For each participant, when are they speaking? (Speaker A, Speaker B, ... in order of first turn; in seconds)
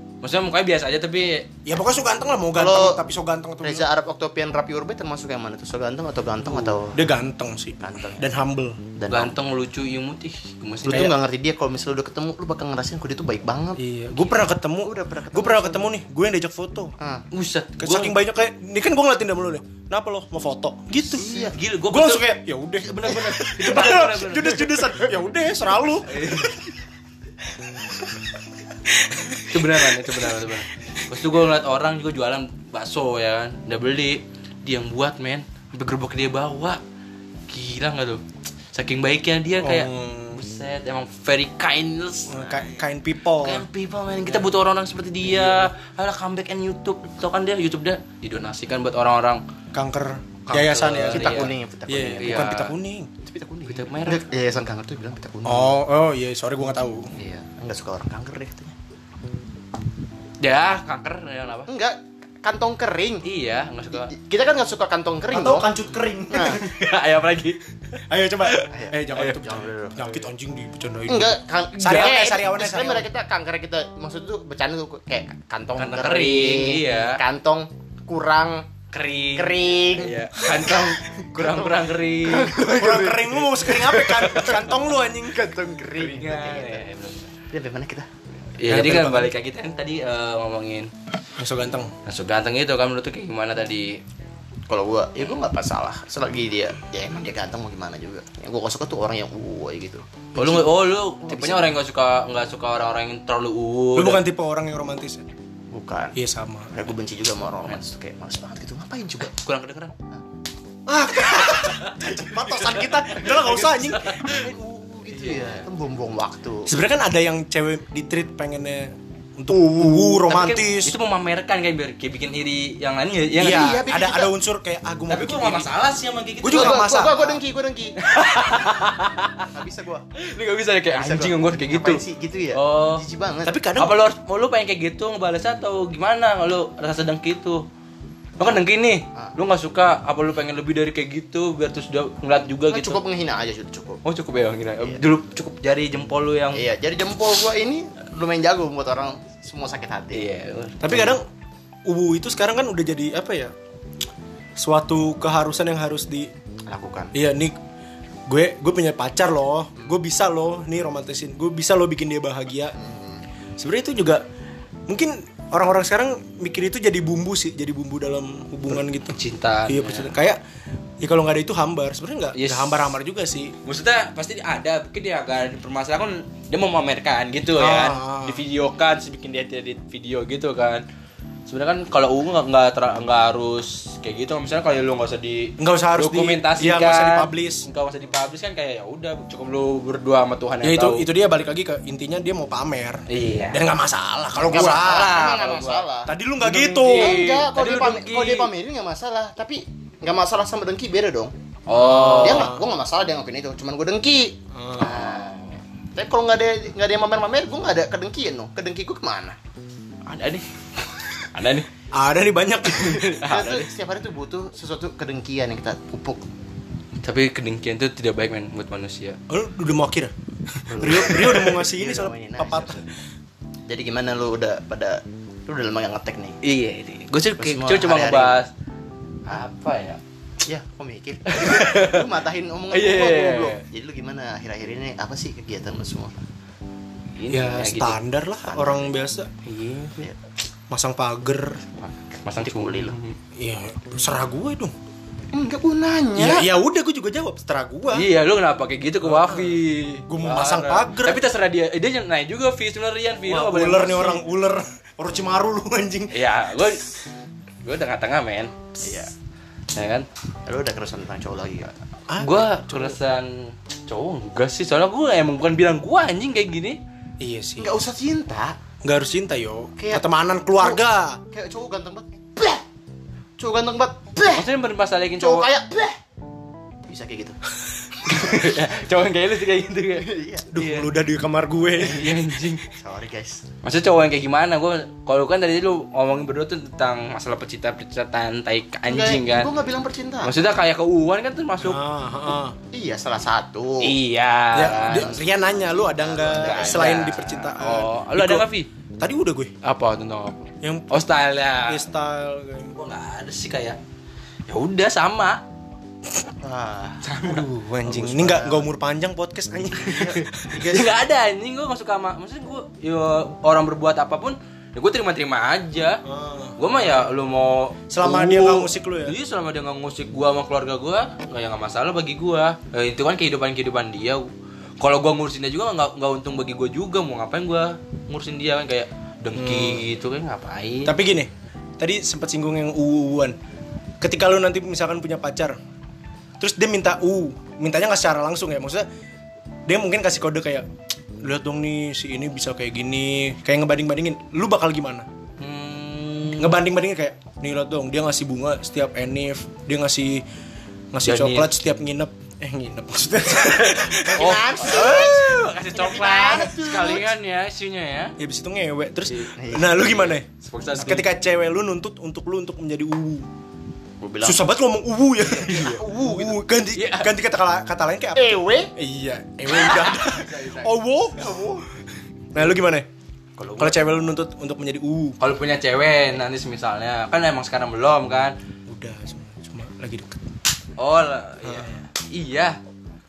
Speaker A: 0.2-1.5, 9.1-11.1, 17.3-18.2, 21.2-25.0, 26.1-26.6, 29.5-36.8, 37.5-38.2, 38.7-42.5, 43.4-49.4, 50.5-51.5, 52.2-52.7, 53.7-54.2, 60.4-61.7, 63.2-64.1, 66.4-67.6, 68.4-69.4, 75.8-77.2, 78.9-82.5, 86.0-87.3, 88.6-90.9, 92.0-94.0, 100.4-104.2, 109.2-109.9, 111.6-114.5, 115.1-115.7, 120.3-123.8, 125.1-127.3, 128.0-129.5, 130.2-132.0, 132.5-133.0, 133.8-137.6, 138.4-143.0, 144.0-146.7, 150.1-151.2, 169.1-170.1, 172.3-172.9, 173.6-180.8, 181.5-191.1, 193.1-193.6, 194.4-195.9, 196.4-198.5, 201.7-202.5, 204.8-205.6, 210.1-210.5, 211.2-211.7, 212.7-213.7, 217.0-219.2, 226.4-228.5, 229.3-230.0, 231.3-232.1, 232.7-233.6, 237.2-238.0, 239.4-240.1, 242.2-243.2, 247.9-254.2, 256.1-256.9, 257.6-258.9, 259.7-260.1, 262.2-266.8, 274.3-275.5, 278.0-280.9, 281.8-282.6, 283.6-289.5, 290.2-291.8, 293.8-295.1, 296.4-298.7, 299.6-301.9, 302.8-303.8, 304.5-305.4, 307.0-307.5, 310.5-316.0, 316.6-324.3, 324.8-331.0, 345.4-346.6, 351.0-351.5, 353.4-358.2, 359.1-361.1, 365.3-367.1, 369.5-370.8, 375.2-378.4, 380.8-382.6
Speaker B: 1.6-3.9, 6.5-8.8, 10.9-11.1, 13.8-16.9, 17.8-21.3, 21.9-26.5, 29.0-30.4, 39.6-40.4, 42.3-43.6, 45.2-45.7, 49.7-53.1, 55.5-57.1, 65.3-66.8, 68.1-73.1, 82.4-85.5, 88.7-89.3, 91.4-91.9, 104.0-105.2, 106.2-106.7, 110.9-114.4, 116.7-120.9, 123.4-125.7, 126.4-127.4, 133.4-134.0, 150.8-151.2, 151.9-153.5, 154.6-156.3, 157.1-157.6, 158.3-162.8, 163.6-164.2, 164.9-170.4, 171.0-173.6, 177.6-178.4, 185.6-187.7, 190.6-195.2, 196.1-197.2, 201.8-202.7, 204.5-204.9, 211.9-213.2, 219.3-222.8, 237.3-239.3, 240.7-241.6, 243.4-244.7, 246.2-248.1, 249.0-251.2, 253.2-256.1, 262.1-262.5, 267.2-267.8, 268.8-271.2, 280.5-282.2, 291.6-292.6, 294.5-298.5, 299.0-299.5, 300.6-301.0, 301.7-302.8, 307.2-310.3, 316.1-316.6, 317.9-319.2, 329.4-329.8, 330.9-333.4, 334.0-335.6, 336.4-338.9, 339.7-340.7, 341.2-345.1, 346.4-350.2, 350.9-355.1, 356.3-356.9, 358.2-363.3, 364.2-371.3, 372.3-372.9, 373.6-375.2, 378.7-380.2, 381.4-381.8
Speaker C: 2.5-3.0, 3.6-7.0, 7.8-8.2, 9.0-9.3, 10.8-15.9, 17.0-17.2, 21.2-21.6, 51.1-52.4, 53.2-55.8, 57.2-58.7, 61.7-63.2, 63.9-65.7, 66.3-66.6, 68.7-70.2, 71.1-78.7, 79.4-80.2, 82.3-86.9, 87.5-88.1, 94.7-101.7, 105.7-106.2, 106.7-109.3, 114.2-116.7, 119.5-120.2, 123.4-124.3, 126.5-128.0, 129.5-130.1, 130.9-133.6, 142.7-144.0, 146.5-150.2, 156.7-157.1, 162.8-163.2, 194.4-196.1, 196.8-201.3, 202.0-205.3, 206.0-209.4, 213.2-216.2, 220.7-222.9, 223.7-226.4, 227.4-228.4, 230.4-236.2, 238.5-238.9, 241.8-242.9, 245.3-246.5, 258.8-259.1, 260.5-261.7, 267.6-268.6, 269.8-270.1, 270.6-272.6, 273.4-274.5, 275.2-276.0, 276.9-277.4, 279.9-280.5, 282.7-283.4, 288.9-290.4, 292.7-294.0, 294.6-297.8, 306.4-307.2, 307.9-308.7, 309.8-310.9, 354.1-357.1, 359.4-359.9, 364.0-364.5, 368.2-368.7, 371.2-371.6, 373.4-373.8